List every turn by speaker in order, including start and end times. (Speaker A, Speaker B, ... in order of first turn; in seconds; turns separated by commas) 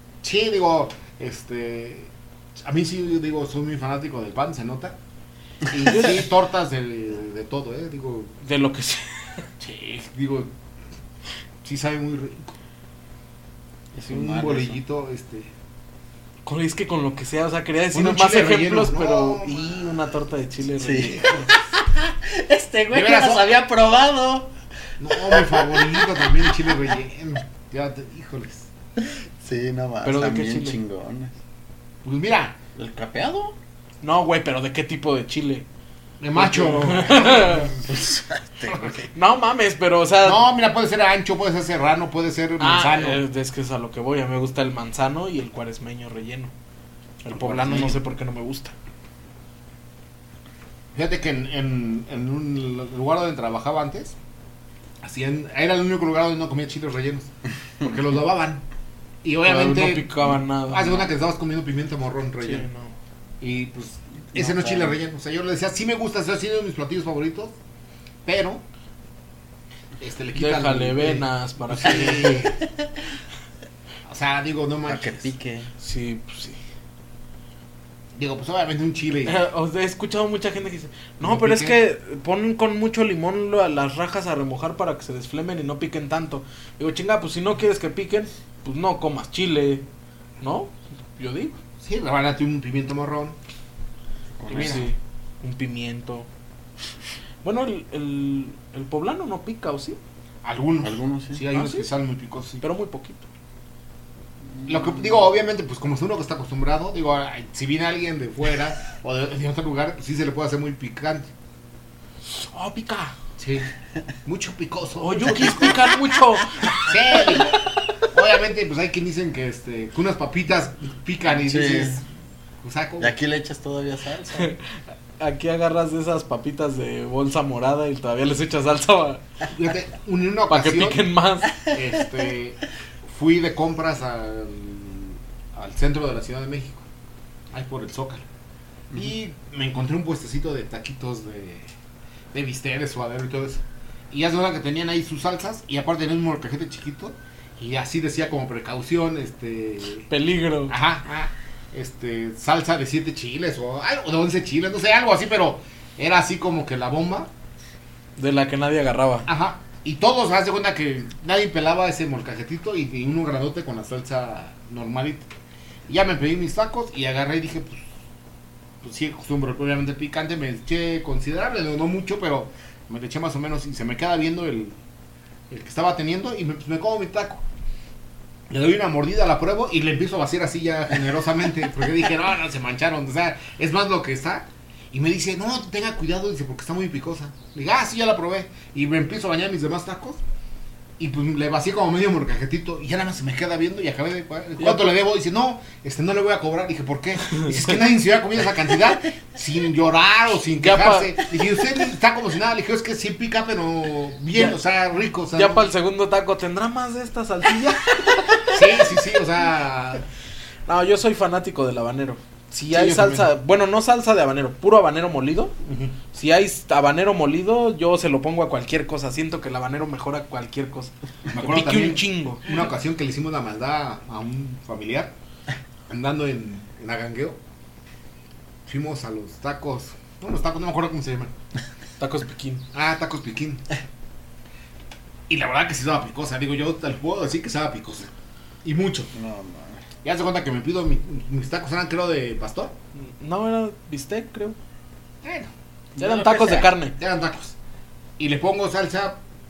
Speaker A: 0.2-2.1, Speaker A: 2.6-5.0, Speaker A: 5.7-8.3, Speaker B: 5.8-6.2, Speaker B: 8.4-9.4, Speaker A: 9.6-10.5, Speaker A: 11.6-12.5, Speaker C: 13.9-14.8, Speaker A: 14.1-15.5, Speaker B: 16.4-21.5, Speaker A: 17.9-20.0, Speaker C: 20.8-24.5, Speaker A: 22.9-23.5, Speaker A: 25.0-28.7, Speaker C: 25.1-26.7, Speaker C: 29.0-31.3, Speaker B: 30.0-30.8, Speaker A: 32.0-32.6, Speaker C: 32.8-33.5, Speaker B: 34.0-35.6, Speaker A: 36.2-38.0, Speaker B: 36.4-37.7, Speaker C: 37.8-39.1, Speaker B: 39.1-40.4, Speaker A: 40.2-43.2, Speaker B: 42.6-46.5, Speaker B: 47.2-48.7, Speaker A: 47.3-48.0, Speaker A: 50.9-54.1, Speaker A: 55.0-57.3, Speaker A: 57.8-58.6, Speaker A: 59.2-60.2, Speaker B: 59.4-61.1, Speaker A: 60.7-62.7, Speaker B: 62.4-62.9, Speaker A: 63.4-67.5, Speaker C: 64.3-65.0, Speaker A: 68.2-68.6, Speaker A: 70.0-72.6, Speaker B: 70.3-72.5, Speaker A: 74.0-75.3, Speaker C: 74.9-75.7, Speaker B: 75.8-76.6, Speaker A: 78.1-79.4, Speaker B: 79.2-89.8, Speaker A: 81.2-81.8, Speaker B: 90.4-91.6, Speaker A: 91.8-93.4, Speaker C: 94.4-94.9, Speaker A: 94.5-94.9, Speaker B: 94.5-96.3, Speaker B: 97.4-100.0, Speaker A: 100.4-102.6, Speaker C: 100.8-101.4, Speaker B: 101.5-101.9, Speaker B: 102.6-103.2, Speaker C: 104.5-104.9, Speaker A: 104.7-111.3, Speaker B: 112.3-113.1, Speaker A: 113.4-113.7, Speaker A: 114.2-115.9, Speaker B: 115.0-116.8, Speaker A: 116.8-122.0, Speaker C: 121.4-122.0, Speaker A: 122.6-123.1, Speaker C: 123.0-124.5, Speaker B: 125.2-129.2, Speaker A: 129.5-131.1, Speaker B: 130.5-131.5, Speaker A: 131.6-136.8, Speaker A: 137.5-138.2, Speaker A: 138.9-141.7, Speaker A: 142.3-150.1, Speaker B: 150.1-150.8, Speaker A: 150.7-157.3, Speaker B: 158.2-159.3, Speaker A: 159.3-165.3, Speaker A: 165.9-167.8, Speaker A: 168.8-174.8, Speaker A: 175.5-177.4, Speaker A: 178.5-190.2, Speaker A: 191.0-205.7, Speaker B: 194.6-194.9, Speaker B: 200.6-201.2, Speaker B: 205.3-208.6, Speaker A: 208.5-210.0, Speaker B: 210.7-215.5, Speaker A: 212.7-213.3, Speaker A: 215.6-215.9, Speaker B: 216.1-222.5, Speaker A: 221.3-225.1, Speaker A: 225.9-227.4, Speaker A: 228.7-231.3, Speaker B: 232.0-232.6, Speaker A: 232.7-233.6, Speaker A: 235.3-238.1, Speaker A: 238.6-239.1, Speaker C: 239.1-239.8, Speaker A: 240.0-242.7, Speaker B: 243.0-244.6, Speaker A: 245.2-245.5, Speaker C: 246.0-246.7, Speaker B: 246.0-246.9, Speaker A: 246.0-247.5, Speaker A: 248.2-249.2